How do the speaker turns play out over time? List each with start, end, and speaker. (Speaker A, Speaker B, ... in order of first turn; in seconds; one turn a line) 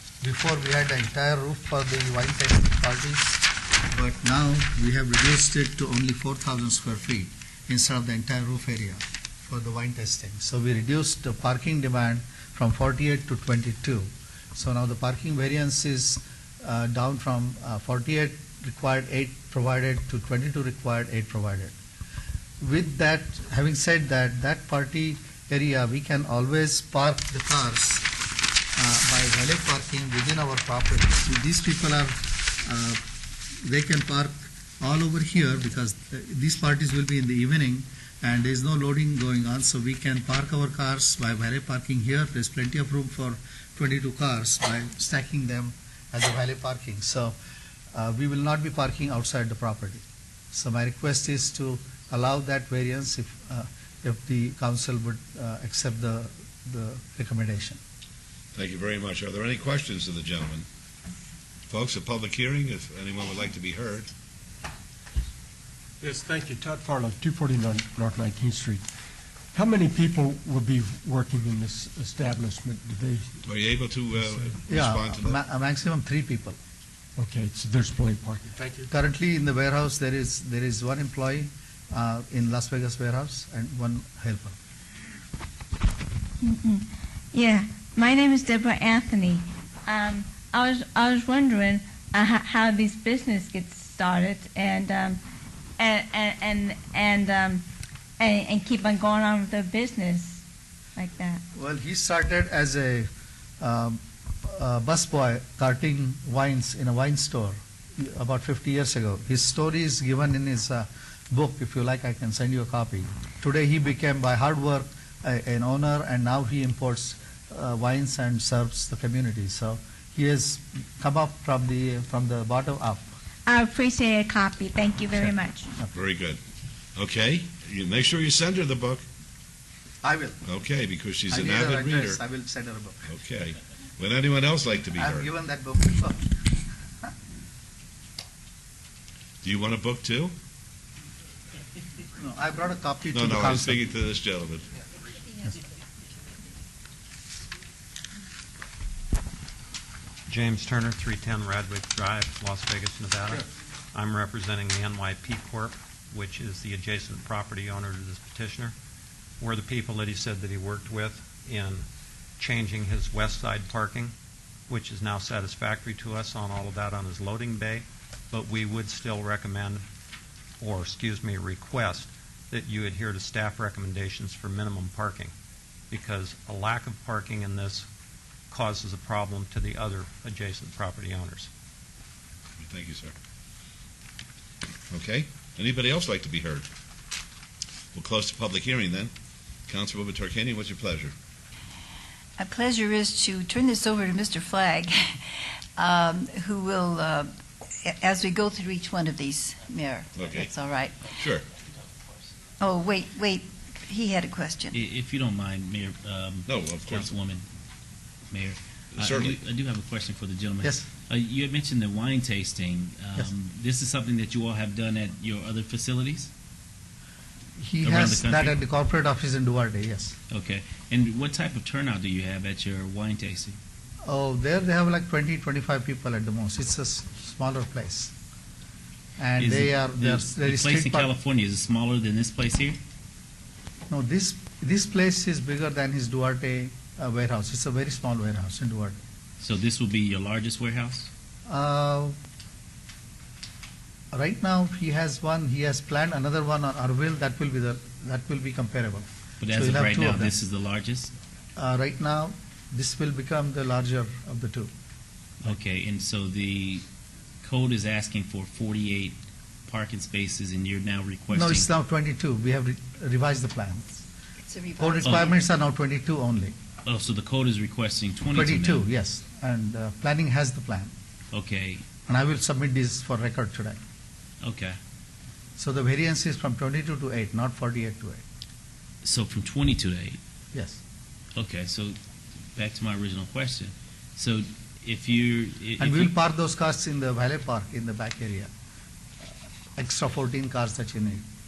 Speaker A: 0.2-21.8
Speaker A: 22.6-28.1
Speaker A: 28.8-33.0
Speaker A: 33.6-47.4
Speaker A: 47.9-57.8
Speaker B: 58.5-60.6
Speaker B: 61.7-64.1
Speaker C: 66.0-68.9
Speaker C: 69.5-73.4
Speaker B: 73.4-75.4
Speaker C: 74.2-74.6
Speaker A: 74.7-76.6
Speaker C: 77.2-78.9
Speaker A: 78.9-84.6
Speaker D: 86.4-95.2
Speaker D: 95.8-97.6
Speaker D: 98.2-100.4
Speaker D: 101.0-101.4
Speaker A: 101.5-103.1
Speaker A: 103.6-123.1
Speaker D: 123.5-125.7
Speaker A: 125.2-125.9
Speaker B: 125.9-126.4
Speaker B: 126.9-129.0
Speaker A: 130.0-130.4
Speaker B: 130.4-132.2
Speaker A: 131.3-133.0
Speaker B: 133.0-135.3
Speaker A: 135.0-136.2
Speaker B: 139.4-140.3
Speaker A: 142.2-143.8
Speaker B: 143.1-144.7
Speaker E: 150.3-158.7
Speaker E: 159.4-161.9
Speaker E: 162.4-164.1
Speaker E: 164.7-169.8
Speaker E: 170.6-175.3
Speaker E: 175.9-177.9
Speaker E: 178.5-181.5
Speaker B: 182.6-183.1
Speaker B: 184.9-186.7
Speaker B: 187.9-189.1
Speaker B: 189.7-191.1
Speaker F: 192.4-201.2
Speaker B: 200.2-200.5
Speaker B: 201.1-201.5
Speaker F: 202.6-204.8
Speaker G: 204.7-207.4
Speaker B: 206.5-207.1
Speaker G: 208.3-216.3
Speaker B: 209.0-209.4
Speaker A: 217.6-220.2
Speaker G: 217.8-218.6
Speaker G: 220.3-223.6
Speaker A: 224.1-228.1
Speaker A: 229.2-231.1
Speaker G: 229.4-232.8
Speaker A: 233.9-239.0
Speaker G: 239.4-241.1
Speaker A: 241.5-242.2
Speaker A: 244.1-250.3
Speaker G: 249.4-251.1
Speaker A: 251.6-254.7
Speaker G: 255.4-256.8
Speaker G: 257.4-261.7
Speaker A: 261.3-264.0
Speaker F: 264.4-265.4
Speaker A: 264.8-266.6
Speaker G: 266.9-268.9
Speaker A: 268.3-270.9
Speaker G: 271.3-271.8
Speaker A: 272.1-273.8
Speaker G: 274.4-274.8
Speaker A: 275.6-278.2
Speaker G: 279.0-280.2
Speaker A: 280.5-280.8
Speaker G: 281.4-281.9
Speaker G: 282.6-286.1
Speaker A: 285.8-288.5
Speaker A: 289.8-291.2